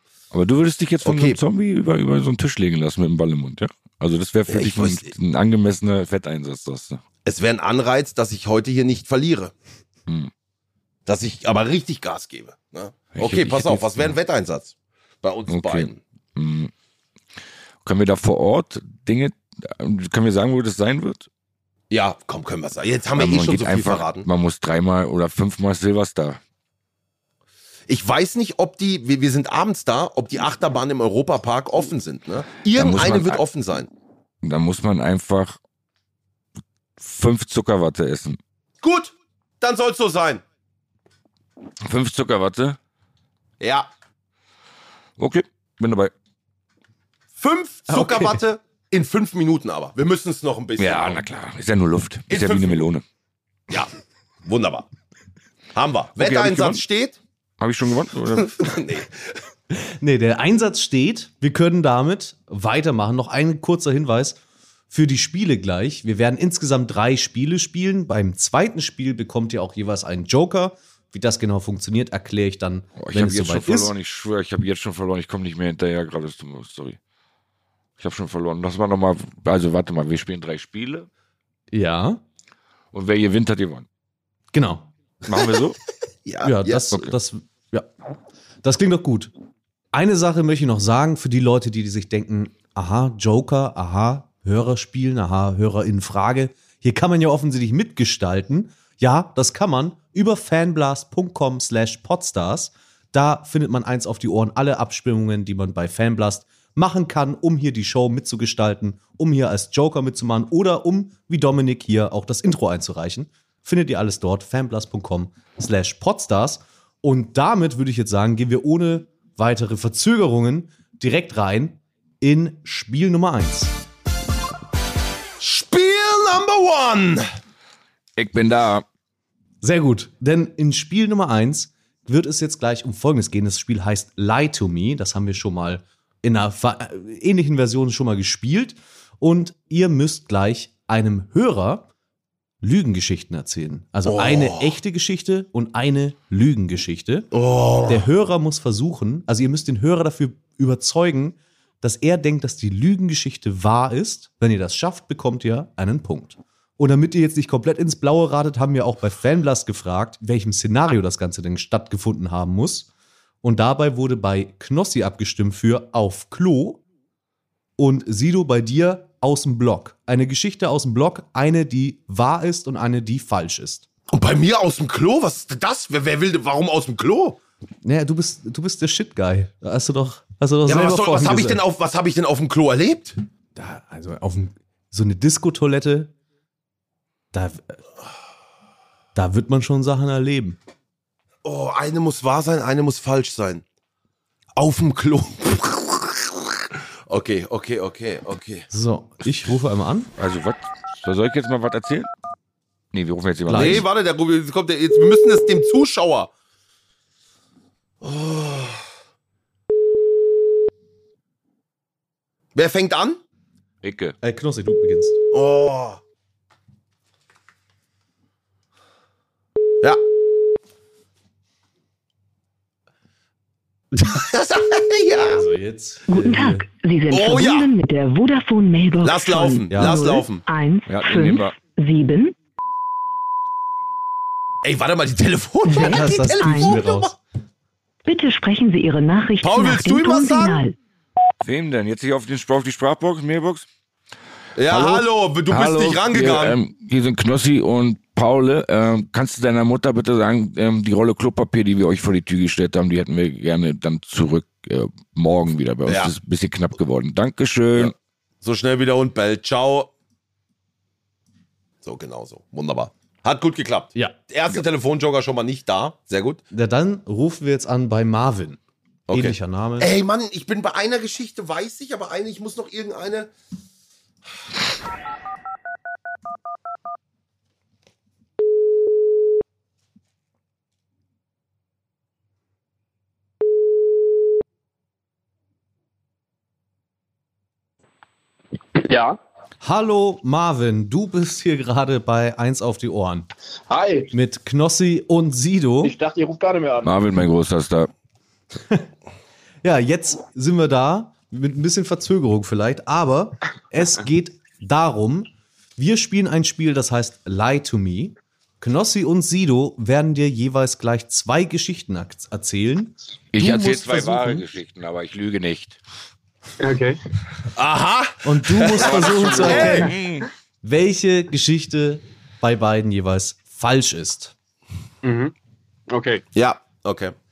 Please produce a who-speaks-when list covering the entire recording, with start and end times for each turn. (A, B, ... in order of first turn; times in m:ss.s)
0:00.3-0:07.0 A
0:01.0-0:01.4 B
0:04.5-0:05.1 B
0:07.2-0:09.5 B
0:11.1-0:16.0 B
0:13.1-0:14.2 A
0:15.5-0:16.7 A
0:17.8-0:21.3 A
0:21.9-0:24.3 B
0:23.1-0:26.4 A
0:27.9-0:33.9 B
0:32.7-0:33.4 A
0:34.4-0:35.6 A
0:37.0-0:38.4 A
0:38.8-0:40.4 B
0:41.8-0:42.8 A
0:43.6-0:43.9 B
0:45.2-0:46.1 A
0:47.4-0:51.2 B
0:47.9-0:48.4 C
0:50.8-0:53.0 A
0:52.3-0:52.8 B
0:54.4-0:54.9 B
0:55.7-0:57.2 B
0:56.2-0:56.8 A
0:57.6-0:58.6 A
0:58.4-0:59.2 B
0:59.8-1:04.4 C
1:04.9-1:13.9 C
1:13.0-1:17.0 A
1:18.0-1:21.1 A
1:21.7-1:22.2 C
1:22.9-1:23.8 A
1:24.5-1:24.9 C
1:25.2-1:25.8 A
1:26.2-1:26.8 B
1:26.4-1:27.9 C
1:28.6-1:29.3 C
1:29.9-2:03.7 C
2:05.4-2:07.2 B
2:08.2-2:08.8 A
2:09.6-2:21.9 C
2:22.6-2:27.3 C
2:24.0-2:24.8 B
2:27.3-2:28.1 B
2:27.8-2:42.9 C
2:43.4-2:46.8 C
2:47.8-2:53.8 C
2:54.1-2:57.4 B
2:57.8-3:01.6 C
3:00.6-3:03.2 B
3:03.6-3:06.1 C
3:07.3-3:07.8 C
3:09.1-3:10.6 C
3:11.4-3:13.6 B
3:14.6-3:16.5 B
3:17.1-3:18.6 B
3:18.7-3:20.1 C
3:20.2-3:22.1 A
3:22.9-3:23.8 A
3:23.5-3:23.8 C
3:23.5-3:26.3 B
3:28.0-3:28.8 B
3:32.5-3:33.2 B
3:33.8-3:34.2 A
3:34.2-3:35.2 C
3:35.3-3:36.0 B
3:44.0-3:45.4 B
3:45.2-3:46.7 C
3:46.1-3:52.3 D
3:47.1-3:47.7 B
3:49.0-3:50.4 B
3:49.7-3:50.1 C
3:50.9-3:51.5 A
3:54.6-3:57.1 B
3:55.7-3:56.8 D
3:55.8-3:57.1 C
3:58.0-4:00.7 D
3:59.4-4:00.6 B
4:01.4-4:03.7 A
4:04.6-4:06.6 B
4:04.7-4:17.9 A
4:15.8-4:16.1 B
4:17.7-4:19.9 B
4:21.8-4:26.4 B
4:26.5-4:28.6 C
4:29.1-4:33.3 B
4:29.1-4:29.9 C
4:48.7-4:49.2 E
4:49.6-4:53.3 C
4:53.7-4:54.1 E
4:54.1-4:55.9 C
4:55.8-4:57.0 E
4:56.8-4:57.9 A
4:59.6-5:14.5 C
5:13.3-5:15.8 A
5:16.6-5:17.0 E
5:17.5-5:19.9 B
5:18.2-5:19.9 C
5:18.8-5:20.3 A
5:20.6-5:24.3 C
5:25.0-5:25.3 E
5:25.9-5:26.2 E
5:26.3-5:27.1 B